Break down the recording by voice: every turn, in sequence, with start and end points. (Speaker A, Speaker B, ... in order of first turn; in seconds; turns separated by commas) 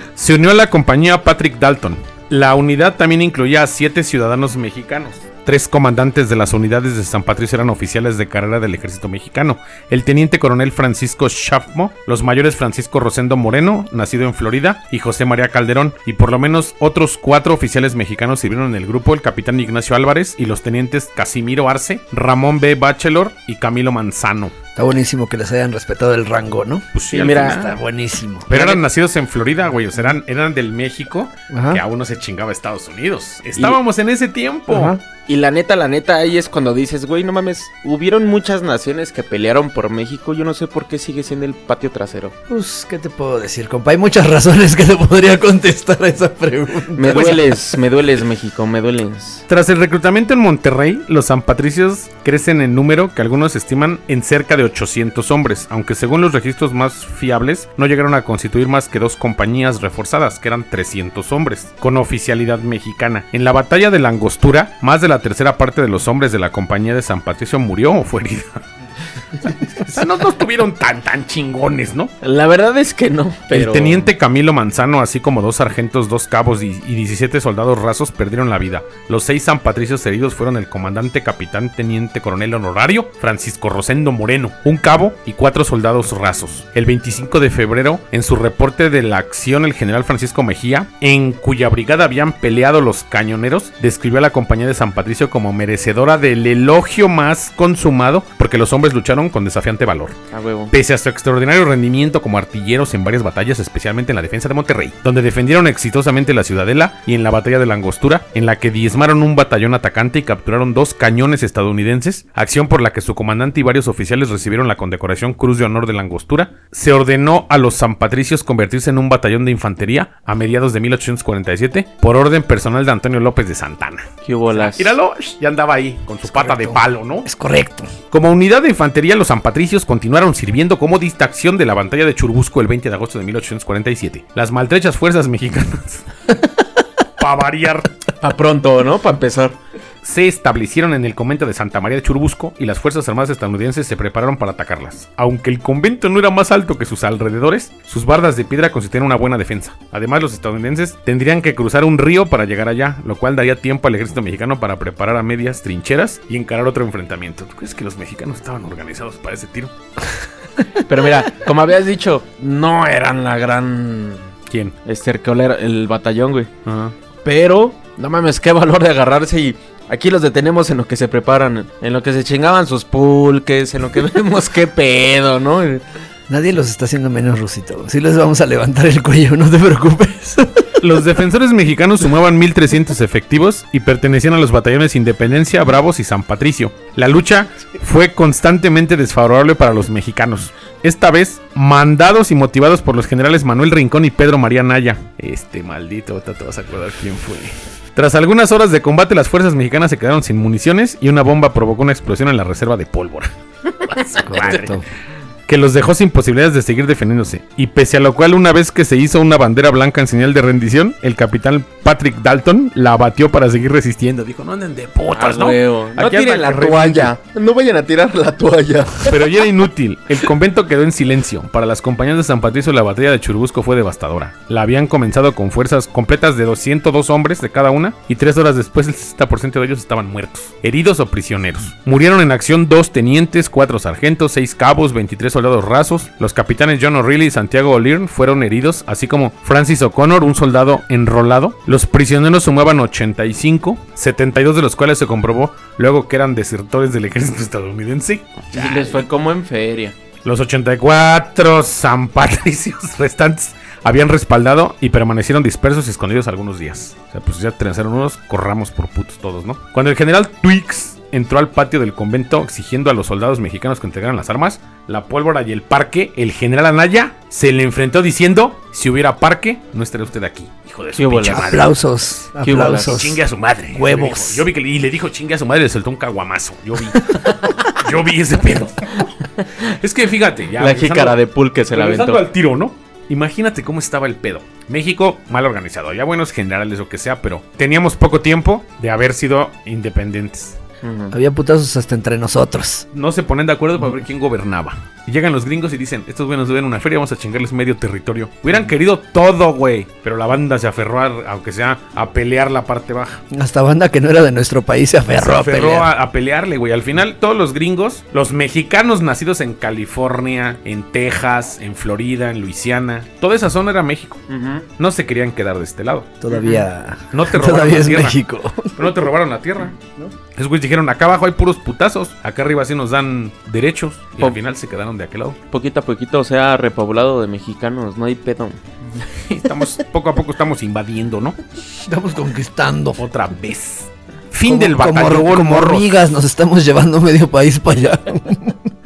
Speaker A: 0.1-24.5, Speaker B: 24.8-26.9, Speaker A: 26.9-27.8, Speaker C: 27.1-27.7, Speaker B: 27.5-28.5, Speaker A: 28.5-35.0, Speaker C: 28.5-28.8, Speaker B: 31.5-31.8, Speaker B: 34.7-35.0, Speaker C: 35.3-42.4, Speaker B: 42.5-47.4, Speaker C: 47.0-49.5, Speaker A: 47.1-47.4, Speaker A: 49.5-68.6, Speaker A: 69.4-72.1, Speaker C: 72.2-74.1, Speaker A: 73.5-100.2, Speaker C: 100.3-100.7, Speaker A: 100.7-127.3, Speaker C: 124.2-125.0, Speaker B: 126.3-127.9, Speaker A: 128.1-136.1, Speaker A: 137.2-137.9, Speaker C: 138.2-139.6, Speaker A: 140.0-159.7, Speaker C: 160.8-164.3, Speaker A: 164.5-164.8, Speaker C: 164.9-166.5, Speaker A: 166.6-166.9, Speaker C: 167.2-175.8, Speaker B: 176.3-180.7, Speaker A: 180.8-203.3, Speaker C: 203.8-204.6, Speaker A: 203.8-204.8, Speaker B: 204.2-204.8, Speaker A: 205.5-217.1, Speaker C: 215.1-219.2, Speaker A: 219.0-249.0, Speaker C: 248.5-249.9, Speaker A: 250.2-271.7, Speaker C: 270.9-271.7, Speaker B: 271.3-273.2, Speaker C: 272.4-273.1, Speaker A: 272.5-277.2, Speaker B: 273.7-274.4, Speaker C: 277.0-277.6, Speaker A: 277.8-281.2, Speaker C: 280.6-282.2, Speaker A: 281.7-290.6, Speaker C: 290.8-291.1, Speaker B: 291.1-292.9, Speaker A: 292.9-303.2, Speaker B: 303.3-305.9, Speaker A: 305.1-314.2, Speaker C: 314.3-314.7, Speaker A: 314.8-316.1, Speaker B: 316.2-318.8, Speaker C: 316.3-316.6, Speaker A: 317.1-318.2, Speaker A: 318.7-319.8, Speaker A: 320.3-325.4, Speaker C: 325.5-329.0, Speaker A: 329.1-331.4, Speaker B: 331.9-333.0, Speaker A: 333.0-336.0, Speaker B: 334.5-338.6